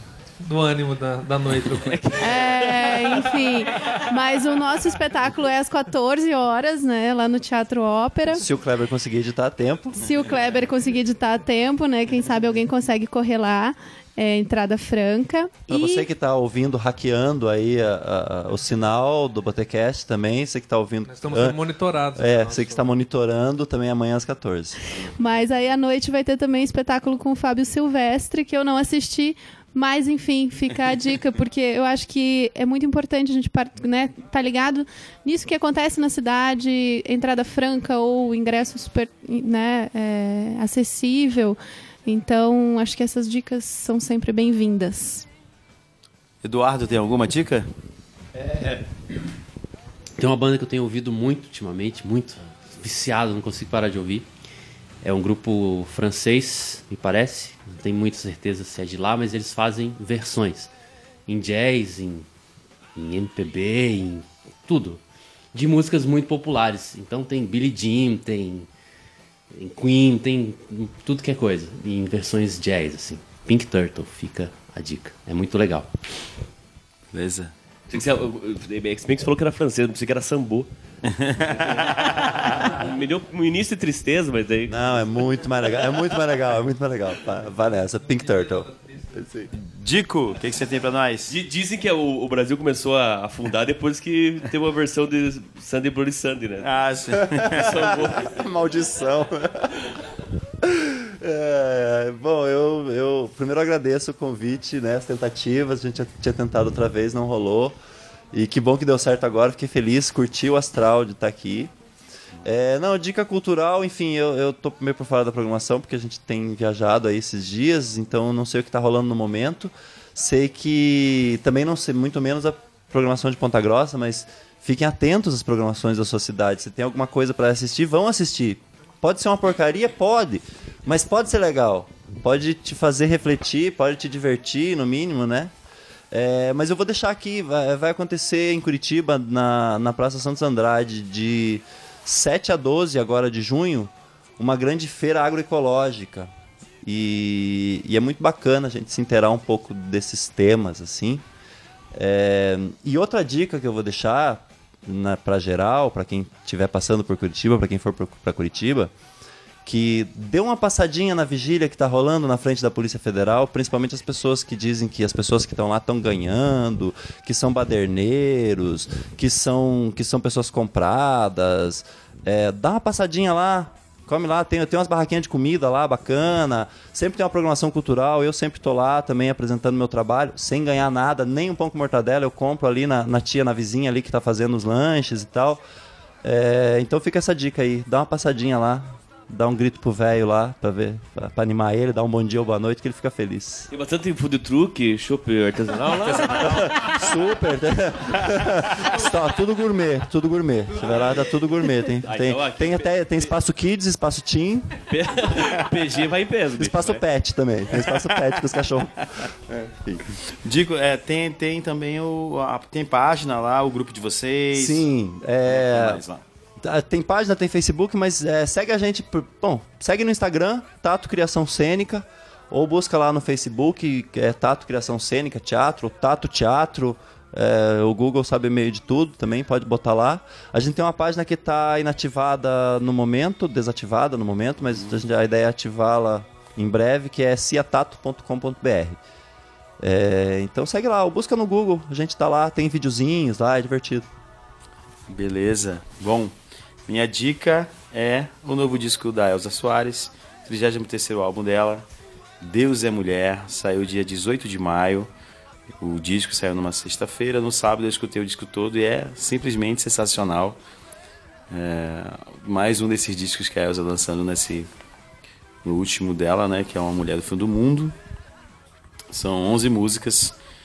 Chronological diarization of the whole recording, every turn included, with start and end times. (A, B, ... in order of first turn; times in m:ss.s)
0:00.4-0:02.5 A
0:02.2-0:08.4 B
0:08.3-0:10.1 C
0:10.0-0:16.1 B
0:15.7-0:21.6 C
0:21.1-0:22.9 A
0:22.1-0:24.9 C
0:25.1-0:45.2 B
0:46.4-0:47.7 D
0:48.4-0:48.8 D
0:50.2-0:54.2 E
0:55.0-1:00.7 E
1:01.3-1:02.3 E
1:02.9-1:05.0 E
1:05.5-1:08.7 E
1:09.5-1:16.0 E
1:17.1-1:17.5 D
1:17.9-1:20.7 F
1:21.0-1:22.8 D
1:21.5-1:24.8 F
1:24.7-1:29.5 C
1:28.2-1:29.3 A
1:29.5-1:31.4 D
1:31.3-1:36.7 F
1:36.6-1:38.1 D
1:37.3-1:39.7 C
1:37.3-1:38.3 F
1:40.6-1:47.8 C
1:48.3-1:51.7 C
1:52.4-2:15.5 C
2:16.1-2:26.3 C
2:26.8-2:31.2 C
2:31.9-2:38.9 C
2:39.6-3:05.6 C
3:06.2-3:13.7 C
3:13.7-3:17.0 F
3:16.0-3:17.1 D
3:16.4-3:24.8 C
3:20.8-3:21.3 F
3:22.0-3:23.3 F
3:24.9-3:27.0 F
3:26.6-3:30.0 C
3:30.4-3:34.9 D
3:34.5-3:36.0 C
3:35.4-3:36.2 D
3:36.6-3:59.0 C
3:59.8-4:04.0 C
4:05.1-4:06.3 D
4:06.8-4:11.8 D
4:12.4-4:15.1 D
4:15.8-4:20.6 D
4:21.5-4:24.7 D
4:25.6-4:27.9 D
4:29.1-4:30.4 D